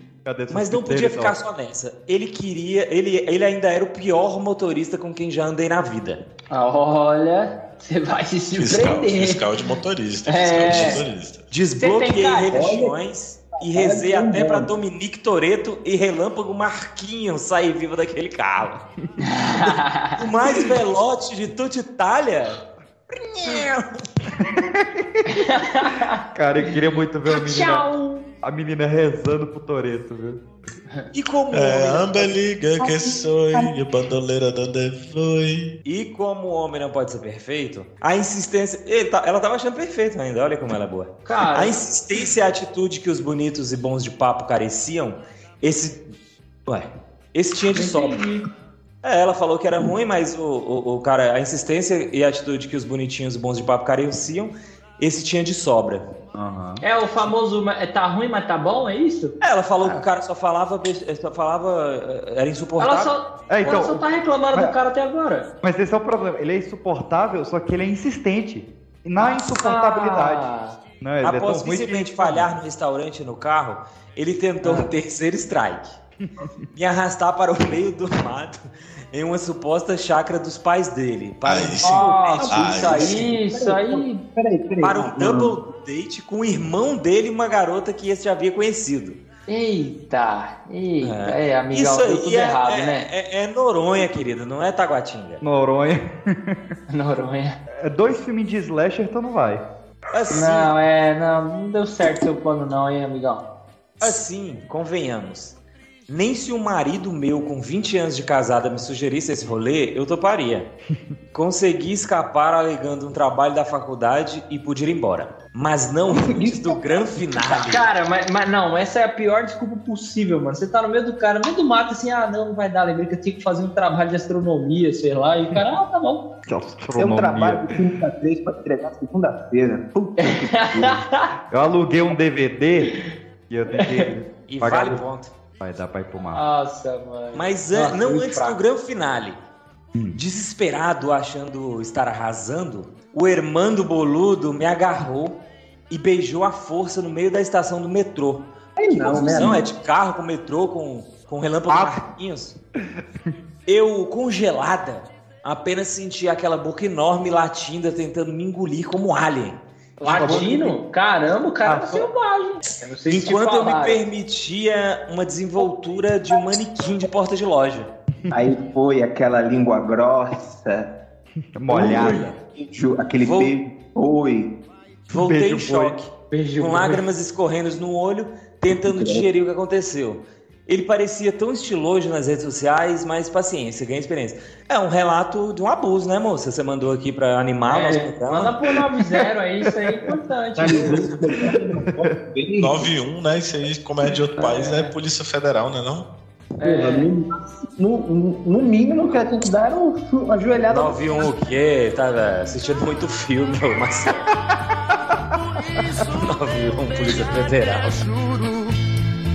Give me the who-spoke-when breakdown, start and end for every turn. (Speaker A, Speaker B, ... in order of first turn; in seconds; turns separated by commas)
Speaker A: 0.2-1.4, Speaker B: 0.5-6.2, Speaker C: 6.5-9.4, Speaker D: 8.6-11.4, Speaker C: 10.2-11.0, Speaker B: 11.5-18.8, Speaker C: 11.8-12.6, Speaker E: 12.5-12.9, Speaker E: 13.6-14.7, Speaker C: 19.3-20.1, Speaker B: 20.2-22.6, Speaker B: 23.4-23.7, Speaker A: 24.4-25.6, Speaker C: 25.3-26.2, Speaker A: 26.3-27.9, Speaker C: 27.3-28.2, Speaker A: 28.4-30.4, Speaker B: 31.1-32.3, Speaker D: 31.5-35.7, Speaker B: 35.8-46.0, Speaker C: 41.2-41.7, Speaker B: 46.7-48.2, Speaker C: 47.7-48.4, Speaker B: 49.0-56.0, Speaker A: 56.3-56.8, Speaker C: 56.8-59.3, Speaker B: 59.4-63.1, Speaker C: 62.8-65.5, Speaker A: 63.5-64.7, Speaker A: 65.6-70.5, Speaker C: 69.2-70.7, Speaker A: 71.0-72.5, Speaker B: 71.2-75.9, Speaker A: 76.2-76.5, Speaker B: 76.7-83.1, Speaker D: 81.4-83.2, Speaker C: 81.8-84.2, Speaker E: 82.3-85.5, Speaker B: 84.8-89.2, Speaker C: 89.5-93.1, Speaker B: 91.0-95.4, Speaker A: 95.4-96.6, Speaker C: 96.9-97.5, Speaker A: 97.7-99.6, Speaker B: 100.1-100.7, Speaker C: 100.3-103.4, Speaker B: 104.0-105.5, Speaker B: 106.1-110.7, Speaker B: 111.3-117.8, Speaker E: 116.0-117.1, Speaker C: 117.5-126.2, Speaker A: 126.5-127.8, Speaker E: 127.0-131.0, Speaker C: 130.2-131.2, Speaker A: 131.5-132.9, Speaker A: 133.5-135.0, Speaker C: 133.8-134.1, Speaker B: 134.5-135.3, Speaker A: 135.6-136.4, Speaker C: 136.3-138.6, Speaker B: 137.3-139.4, Speaker B: 140.1-145.4, Speaker B: 145.9-148.4, Speaker E: 148.8-149.7, Speaker B: 149.0-152.6, Speaker A: 151.7-152.0, Speaker A: 152.8-153.3, Speaker B: 153.7-159.6, Speaker C: 160.0-164.0, Speaker A: 160.0-160.8, Speaker A: 161.6-162.1, Speaker B: 163.1-167.9, Speaker E: 168.3-170.9, Speaker A: 171.5-172.3, Speaker E: 171.7-174.5, Speaker B: 173.2-173.5, Speaker B: 175.1-188.5, Speaker A: 175.1-176.0, Speaker C: 176.3-177.0, Speaker E: 178.7-179.2, Speaker C: 187.7-191.1, Speaker E: 190.6-192.9, Speaker A: 191.9-192.1, Speaker D: 192.6-196.1, Speaker C: 196.6-197.1, Speaker E: 196.6-201.3, Speaker B: 200.7-204.2, Speaker F: 204.9-208.8, Speaker B: 206.2-208.0